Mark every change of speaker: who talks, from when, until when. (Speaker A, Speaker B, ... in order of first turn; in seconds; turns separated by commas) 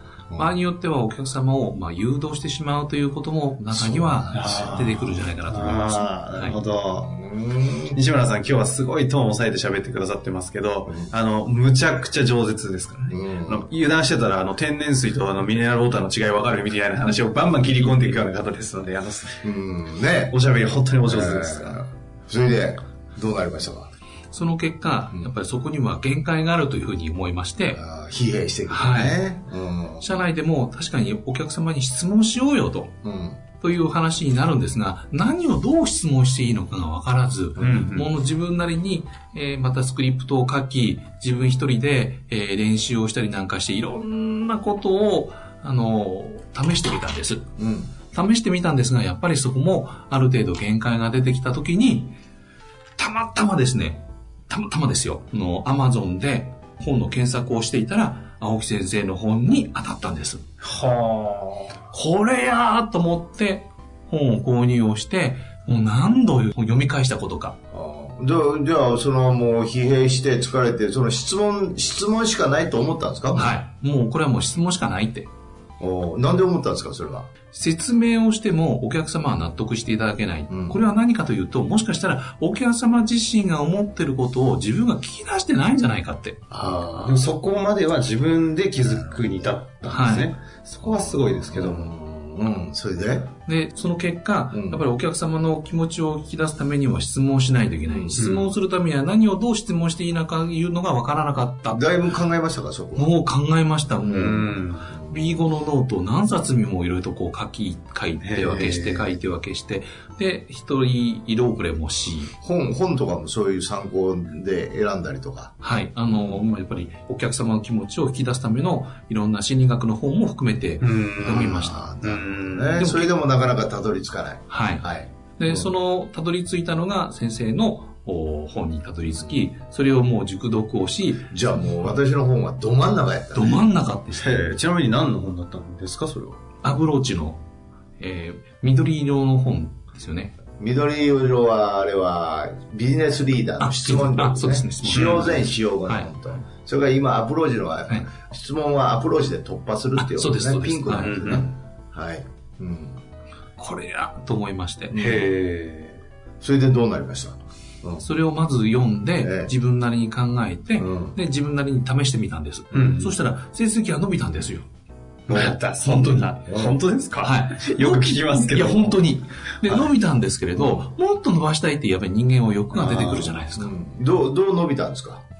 Speaker A: 0.3-6.6, Speaker B: 3.7-8.0, Speaker C: 4.3-7.1, Speaker C: 7.9-19.4, Speaker B: 13.1-13.7, Speaker B: 19.4-20.3, Speaker C: 20.3-21.8, Speaker B: 21.1-23.9, Speaker A: 24.3-27.8, Speaker B: 27.7-30.2, Speaker A: 28.7-29.2, Speaker A: 30.0-32.9, Speaker B: 33.0-33.4, Speaker A: 33.6-47.4, Speaker C: 37.6-38.1, Speaker B: 37.6-37.9, Speaker B: 47.6-47.9, Speaker A: 48.1-52.1, Speaker A: 53.0-60.4, Speaker C: 60.6-61.6, Speaker A: 61.9-67.5, Speaker B: 67.7-73.6, Speaker A: 73.3-75.3, Speaker B: 75.8-77.3, Speaker A: 77.5-86.4, Speaker B: 80.5-80.8, Speaker B: 86.5-87.2, Speaker C: 86.6-91.9, Speaker B: 89.0-89.5, Speaker A: 89.9-90.3, Speaker B: 90.8-93.3, Speaker A: 93.5-101.8, Speaker B: 94.5-94.8, Speaker B: 97.9-98.2, Speaker C: 98.2-98.5, Speaker B: 101.7-103.1, Speaker A: 103.0-112.3, Speaker C: 104.0-104.9, Speaker B: 104.9-105.4, Speaker C: 108.2-109.1, Speaker B: 112.4-115.5, Speaker A: 115.6-121.8, Speaker B: 116.1-116.4, Speaker C: 120.8-122.8, Speaker B: 121.2-125.7, Speaker A: 122.8-123.1, Speaker A: 124.5-124.8, Speaker A: 125.4-131.3, Speaker B: 129.1-129.3, Speaker B: 131.3-133.7, Speaker A: 133.3-134.5, Speaker C: 134.2-136.4, Speaker A: 136.6-137.4, Speaker A: 138.0-140.3, Speaker B: 140.6-153.0, Speaker A: 143.6-146.1, Speaker C: 144.8-145.4, Speaker A: 150.0-151.1, Speaker C: 151.0-151.5, Speaker A: 153.6-155.0, Speaker B: 154.9-155.2, Speaker C: 154.9-156.0, Speaker B: 156.4-158.0, Speaker A: 158.0-164.7, Speaker B: 159.2-159.5, Speaker B: 160.8-161.2, Speaker C: 162.7-163.1, Speaker C: 165.3-169.0, Speaker A: 165.3-166.3, Speaker B: 166.5-166.8, Speaker A: 167.2-173.7, Speaker B: 170.6-170.8, Speaker B: 172.7-175.2